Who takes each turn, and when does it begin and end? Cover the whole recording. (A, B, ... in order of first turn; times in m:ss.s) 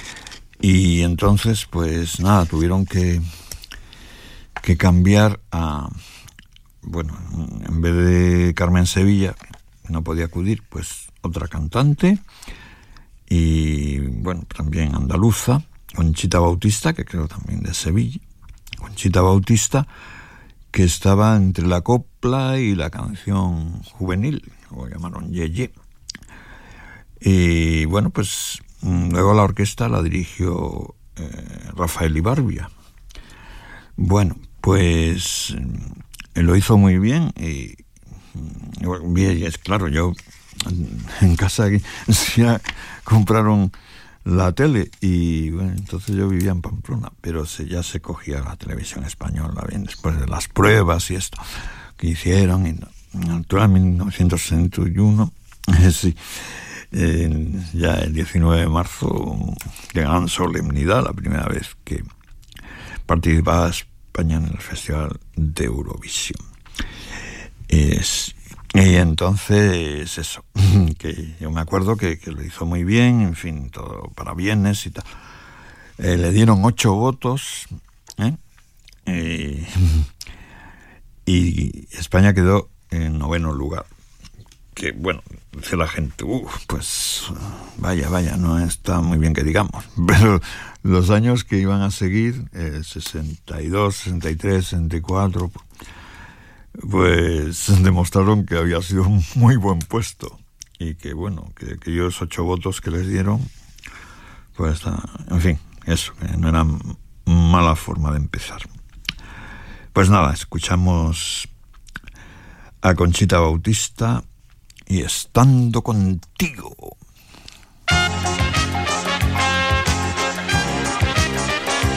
0:00.6-0:03.2 A
0:04.6-0:05.9 A
0:06.8-0:12.2 A
0:13.3-0:18.2 A
0:18.8-0:19.9 A
0:20.7-0:25.7 A
0:27.2-0:32.7 A
0:34.0-0:37.8 A
0:38.3-0:43.7 A
0:44.2-1:02.0 A
1:03.1-1:06.4 A
1:07.7-1:15.0 A
1:16.0-1:18.4 A
1:19.1-1:20.1 A
1:21.2-1:23.9 A
1:24.8-1:35.6 A
1:36.8-1:43.5 A
1:44.6-1:48.7 A
1:49.9-1:51.5 A
1:52.8-1:54.2 A
1:54.9-1:57.0 A